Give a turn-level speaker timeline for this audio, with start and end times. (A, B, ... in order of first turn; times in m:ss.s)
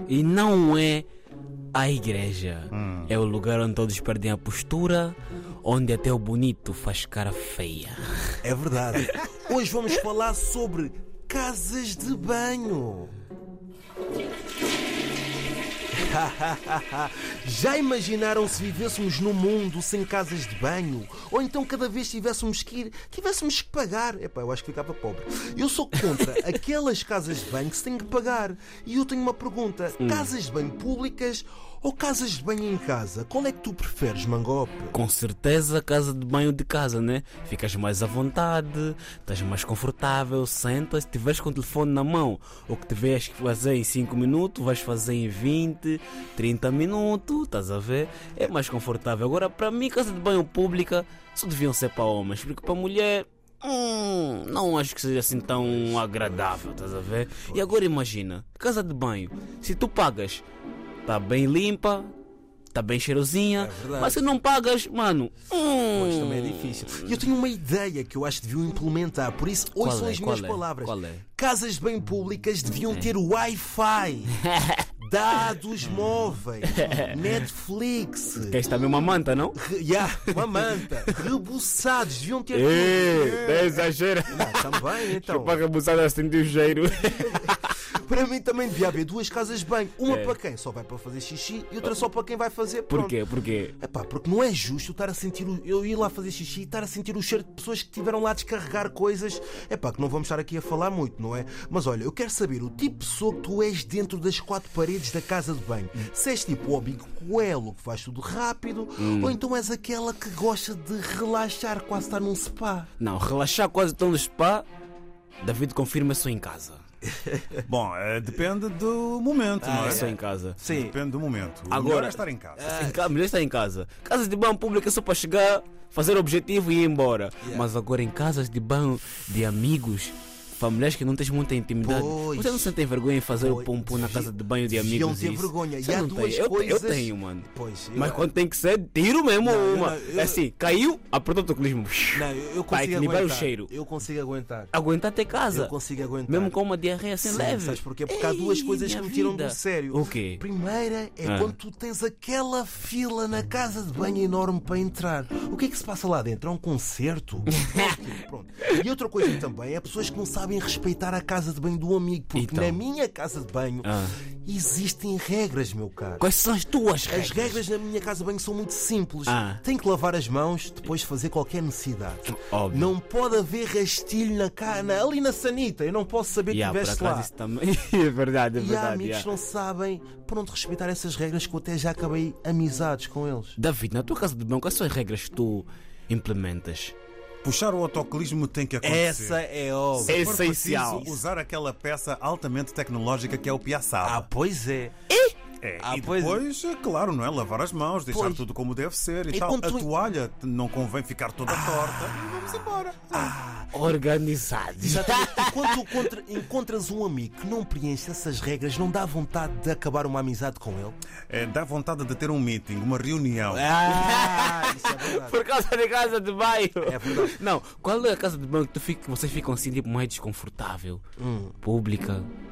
0:00.1-0:01.1 A
0:01.7-0:08.4 A
0:02.7-0:03.1 B
0:08.4-0:13.1 C
0:15.9-0:35.0 C
0:26.1-0:26.4 A
0:30.0-0:30.3 A
0:34.9-1:00.4 A
0:55.9-0:56.2 C
0:57.4-0:57.8 C
1:01.0-1:02.1 A
1:02.7-1:07.2 A
1:03.6-1:04.3 C
1:05.9-1:14.4 C
1:09.8-1:11.2 A
1:14.5-1:14.8 A
1:15.0-1:18.6 C
1:16.7-1:17.2 A
1:18.3-1:21.3 A
1:19.6-1:25.6 C
1:22.5-1:27.7 A
1:27.0-1:33.2 C
1:30.1-1:30.4 A
1:32.9-1:33.8 A
1:33.8-1:52.9 C
1:49.0-1:49.4 A
1:53.0-1:54.7 A
1:55.4-1:56.8 A
1:57.1-1:57.6 C
1:57.7-2:02.7 B
1:59.6-2:01.0 C
1:59.8-2:00.6 A
2:01.7-2:23.7 A
2:02.6-2:03.1 C
2:11.8-2:12.7 C
2:13.3-2:18.3 C
2:19.4-2:20.4 C
2:22.1-2:24.7 C
2:24.7-2:25.8 A
2:25.5-2:26.6 C
2:26.3-2:30.4 A
2:27.2-2:43.9 C
2:31.2-2:31.5 A
2:37.5-2:38.1 A
2:42.4-2:42.8 A
2:43.8-2:44.2 A
2:44.4-2:46.2 C
2:46.2-2:47.6 A
2:47.1-2:57.3 C
2:49.3-2:49.6 A
2:52.3-2:52.9 A
2:56.5-2:59.3 A
2:58.6-3:03.6 C
3:03.6-3:07.0 A
3:07.4-3:09.4 B
3:08.8-3:10.4 C
3:10.0-3:14.3 B
3:10.1-3:11.2 A
3:14.0-3:14.9 C
3:15.1-3:15.4 A
3:15.6-3:23.3 B
3:15.8-3:16.4 C
3:18.1-3:18.4 C
3:19.3-3:19.9 C
3:21.4-3:22.5 C
3:23.1-3:23.8 C
3:23.7-3:26.0 A
3:24.8-3:31.0 C
3:31.3-3:33.7 B
3:33.5-3:35.4 C
3:33.5-3:41.0 A
3:36.9-3:37.4 C
3:41.2-3:41.6 C
3:41.6-3:42.3 A